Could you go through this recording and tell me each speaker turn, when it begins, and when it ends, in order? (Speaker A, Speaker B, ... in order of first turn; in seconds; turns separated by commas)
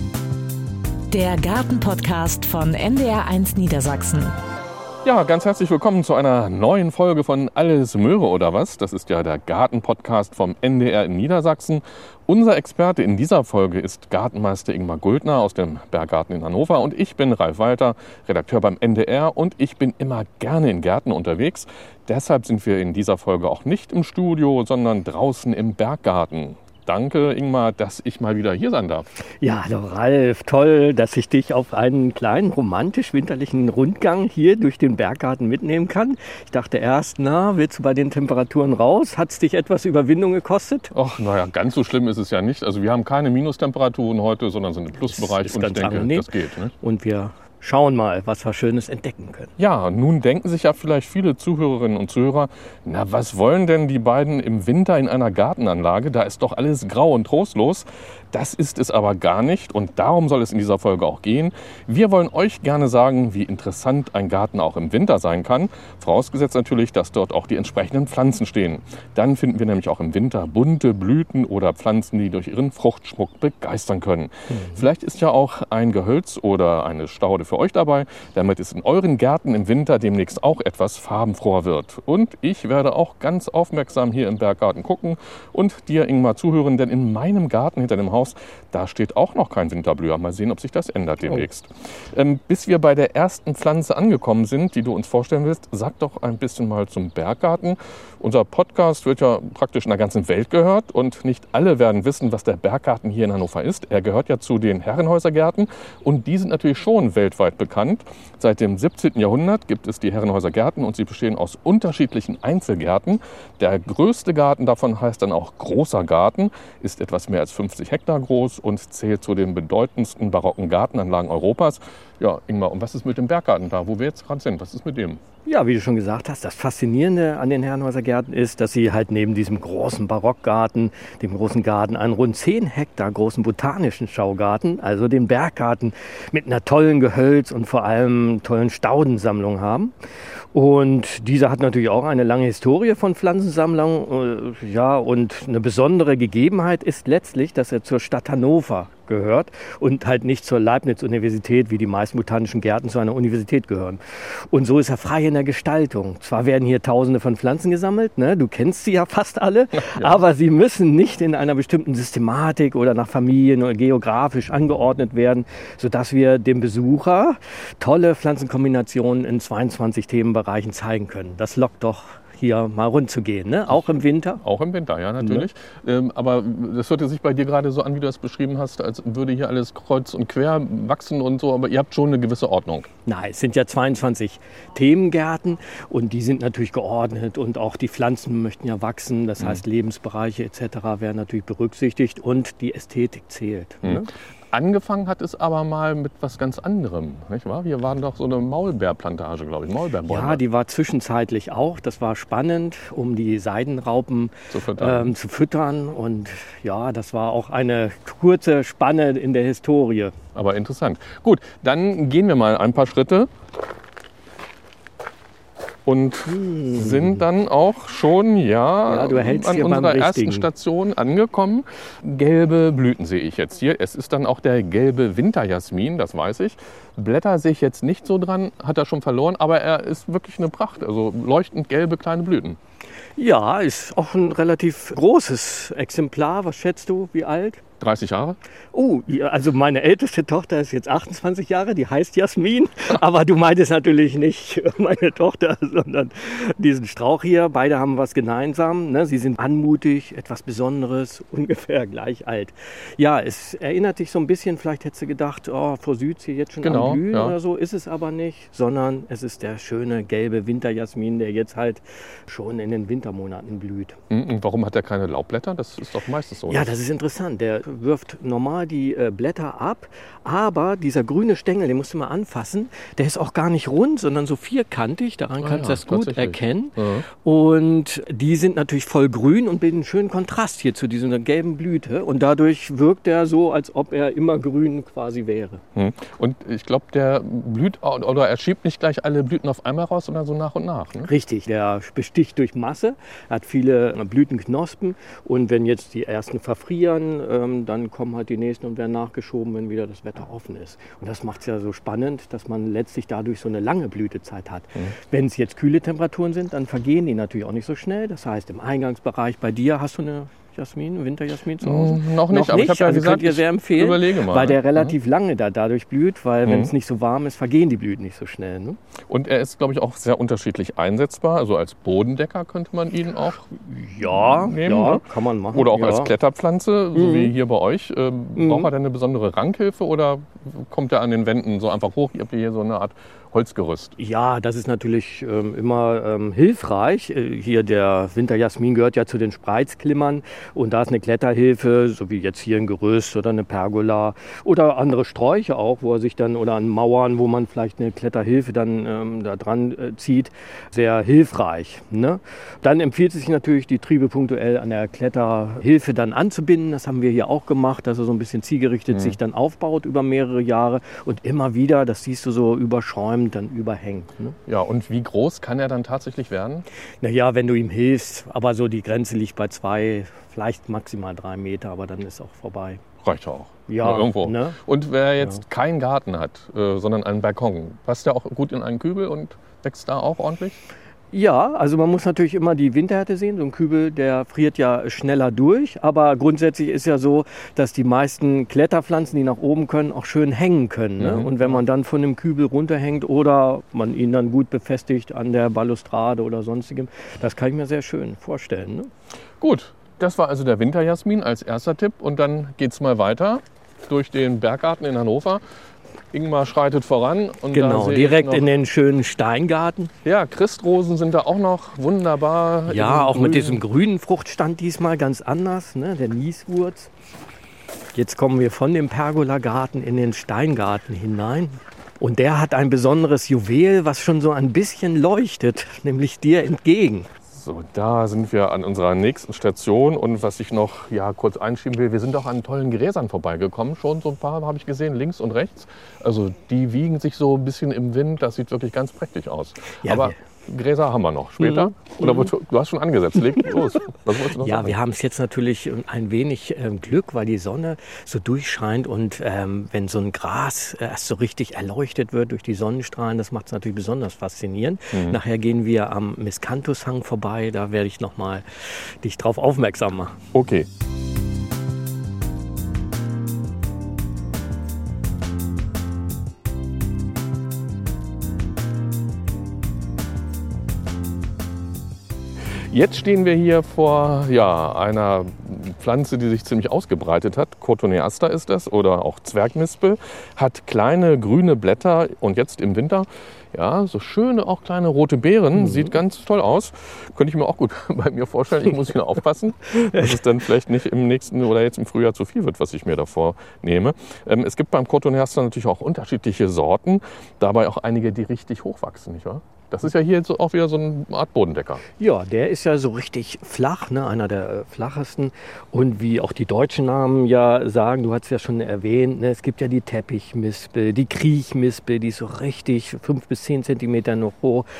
Speaker A: 1.1-4.3, Speaker B: 5.0-29.1, Speaker C: 29.4-40.9, Speaker B: 40.9-46.7, Speaker C: 45.0-49.5, Speaker B: 49.6-125.2, Speaker C: 74.5-74.8, Speaker C: 125.5-139.9, Speaker C: 140.5-174.4, Speaker B: 159.7-160.2, Speaker B: 174.4-182.9, Speaker C: 175.2-175.4, Speaker C: 183.1-194.1, Speaker B: 193.8-200.4, Speaker C: 200.0-210.2, Speaker B: 204.5-205.1, Speaker B: 210.3-213.3, Speaker B: 215.8-232.6, Speaker C: 216.3-217.2, Speaker C: 218.9-220.5, Speaker C: 233.2-237.6, Speaker B: 237.8-238.4, Speaker C: 238.7-264.0, Speaker B: 256.6-257.4, Speaker B: 264.1-266.7, Speaker C: 266.5-285.6, Speaker B: 275.4-277.1, Speaker B: 285.8-291.1, Speaker C: 291.0-318.8, Speaker B: 311.6-314.9, Speaker B: 316.4-316.7, Speaker B: 319.1-323.5, Speaker C: 323.5-326.1, Speaker B: 324.1-333.9, Speaker C: 326.9-327.3, Speaker C: 328.4-328.7, Speaker C: 334.0-364.4, Speaker B: 358.9-359.2, Speaker B: 364.4-366.6, Speaker C: 367.0-372.8, Speaker B: 373.0-380.6, Speaker C: 373.7-374.6, Speaker C: 381.1-398.9, Speaker B: 391.0-391.6, Speaker B: 399.4-405.4, Speaker B: 406.1-408.4, Speaker C: 407.5-409.9, Speaker B: 410.0-413.6, Speaker C: 412.7-416.9, Speaker C: 417.9-427.1, Speaker B: 427.3-444.8, Speaker C: 439.8-440.1, Speaker C: 441.4-442.3, Speaker C: 444.4-460.2, Speaker B: 454.9-455.2, Speaker B: 460.3-460.7, Speaker B: 472.4-501.8, Speaker C: 485.6-485.9, Speaker C: 489.8-490.1, Speaker C: 502.0-514.6